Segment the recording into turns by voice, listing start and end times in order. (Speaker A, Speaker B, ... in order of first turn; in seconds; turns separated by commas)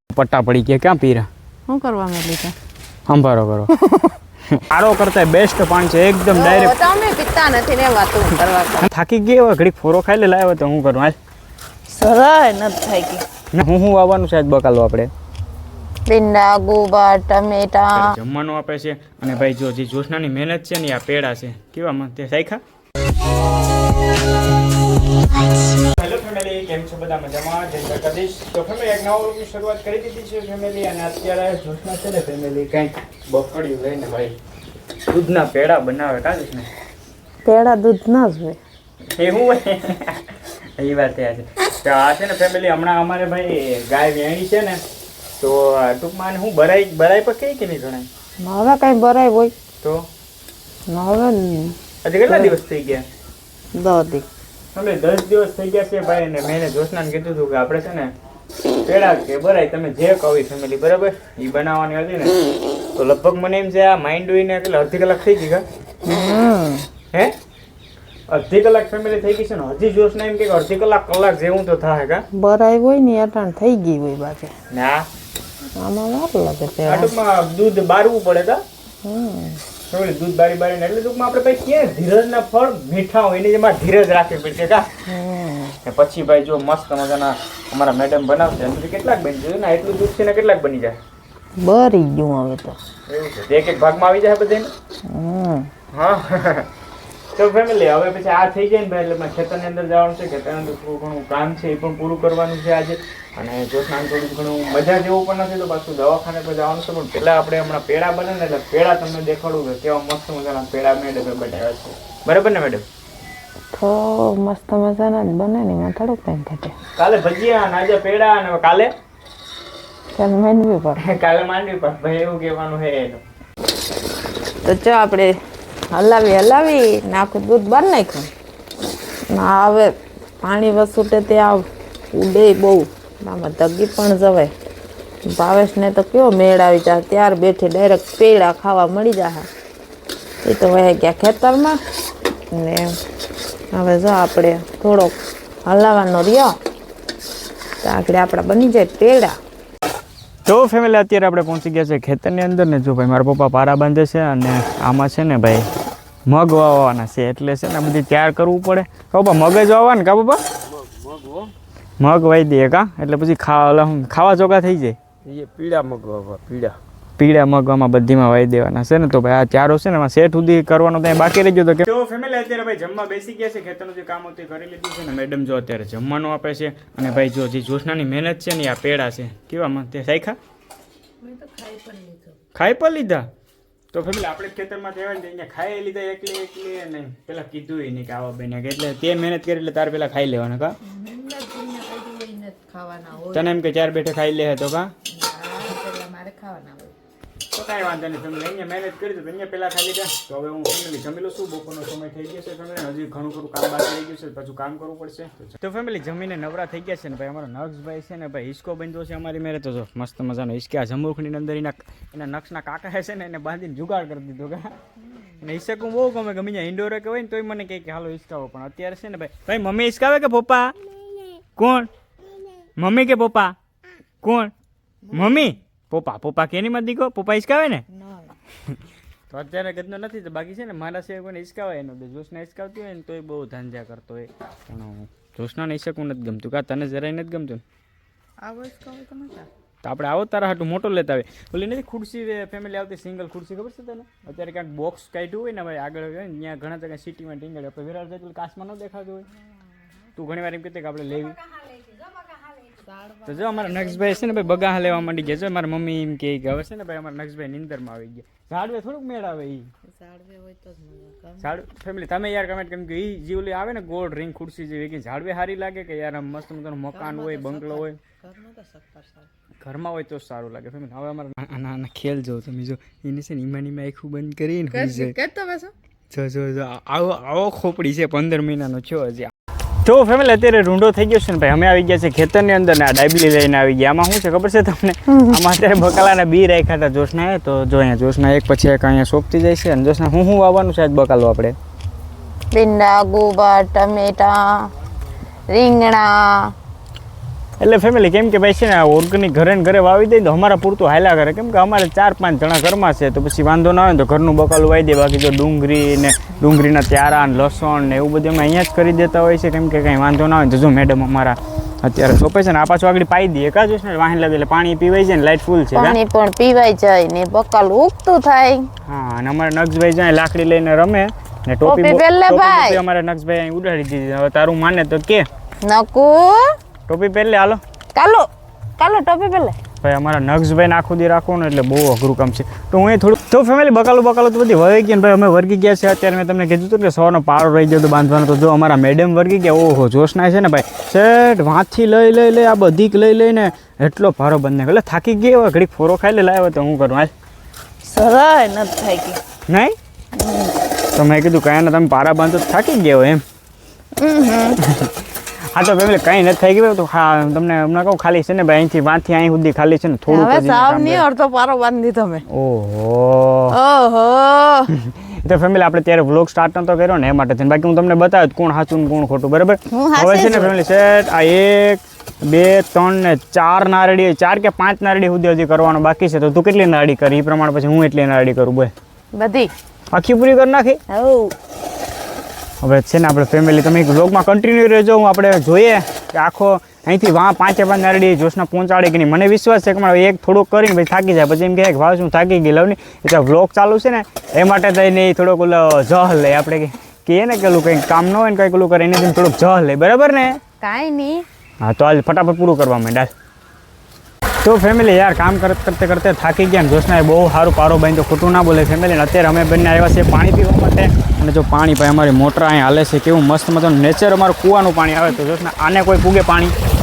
Speaker A: 0.1-1.3, Speaker B: 1.7-2.5, Speaker A: 3.1-3.7, Speaker B: 3.8-4.1, Speaker A: 4.6-6.8, Speaker B: 6.3-8.9, Speaker A: 8.8-11.2, Speaker B: 11.9-13.2, Speaker A: 13.5-15.1, Speaker B: 16.1-18.1, Speaker A: 17.9-22.6, Speaker A: 25.9-34.4, Speaker A: 35.1-36.7, Speaker B: 37.4-38.6, Speaker A: 39.1-44.8, Speaker A: 45.4-48.1, Speaker B: 48.4-49.5, Speaker A: 49.8-50.1, Speaker B: 50.9-51.8, Speaker A: 52.0-53.1, Speaker B: 52.3-52.5, Speaker B: 53.7-54.3, Speaker A: 54.7-58.1, Speaker A: 58.9-62.4, Speaker A: 63.0-65.7, Speaker B: 66.0-66.9, Speaker A: 68.3-72.2, Speaker B: 72.3-74.5, Speaker A: 74.7-75.1, Speaker B: 75.8-77.1, Speaker A: 76.8-78.6, Speaker B: 79.0-79.6, Speaker A: 79.9-84.9, Speaker B: 85.1-85.8, Speaker A: 85.8-91.0, Speaker B: 91.6-92.8, Speaker A: 93.1-94.7, Speaker B: 95.1-95.7, Speaker A: 95.9-96.7, Speaker A: 97.3-112.9, Speaker B: 113.7-116.8, Speaker A: 117.0-118.9, Speaker B: 120.2-121.0, Speaker A: 121.0-123.2, Speaker B: 124.6-125.3, Speaker B: 125.9-128.3, Speaker B: 129.3-134.5, Speaker B: 135.3-139.5, Speaker B: 140.4-141.8, Speaker B: 142.5-142.9, Speaker B: 143.7-146.5, Speaker B: 147.8-149.4, Speaker A: 150.5-155.7, Speaker A: 156.3-160.4, Speaker C: 160.7-161.5, Speaker A: 162.0-165.0, Speaker C: 165.2-166.8, Speaker A: 167.2-180.4, Speaker B: 181.2-182.4, Speaker A: 182.5-183.3, Speaker A: 183.9-190.8, Speaker B: 190.8-193.6, Speaker A: 193.3-194.9, Speaker B: 195.1-196.9, Speaker A: 197.5-214.7, Speaker A: 215.4-220.8, Speaker A: 221.6-221.9, Speaker A: 222.8-223.6, Speaker A: 224.2-224.5, Speaker A: 225.1-227.8, Speaker B: 227.9-228.3, Speaker A: 229.3-237.6, Speaker B: 238.4-239.5, Speaker A: 239.8-249.3, Speaker A: 250.2-251.4, Speaker B: 252.5-255.1, Speaker A: 253.2-259.7, Speaker B: 259.9-261.4, Speaker A: 261.4-268.0, Speaker B: 266.9-269.3, Speaker A: 269.6-275.1, Speaker B: 274.7-275.7, Speaker A: 276.1-279.3, Speaker A: 279.8-291.6, Speaker B: 285.1-285.4, Speaker B: 292.5-294.7, Speaker B: 295.5-296.5, Speaker A: 297.6-316.0, Speaker B: 315.7-318.7, Speaker A: 318.9-325.3, Speaker B: 321.6-322.8, Speaker B: 325.6-326.5, Speaker A: 326.9-327.6, Speaker B: 327.9-328.3, Speaker B: 328.8-329.6, Speaker A: 329.8-347.1, Speaker B: 347.8-349.2, Speaker A: 349.5-349.8, Speaker B: 350.2-350.6, Speaker A: 350.9-353.2, Speaker B: 354.0-354.6, Speaker A: 354.6-361.0, Speaker B: 360.1-362.2, Speaker A: 362.3-363.6, Speaker B: 363.5-364.7, Speaker A: 364.7-378.7, Speaker B: 369.7-370.5, Speaker B: 379.2-379.5, Speaker A: 379.9-380.8, Speaker B: 380.9-381.3, Speaker A: 382.6-400.4, Speaker B: 400.6-401.3, Speaker A: 401.6-403.1, Speaker A: 404.4-416.5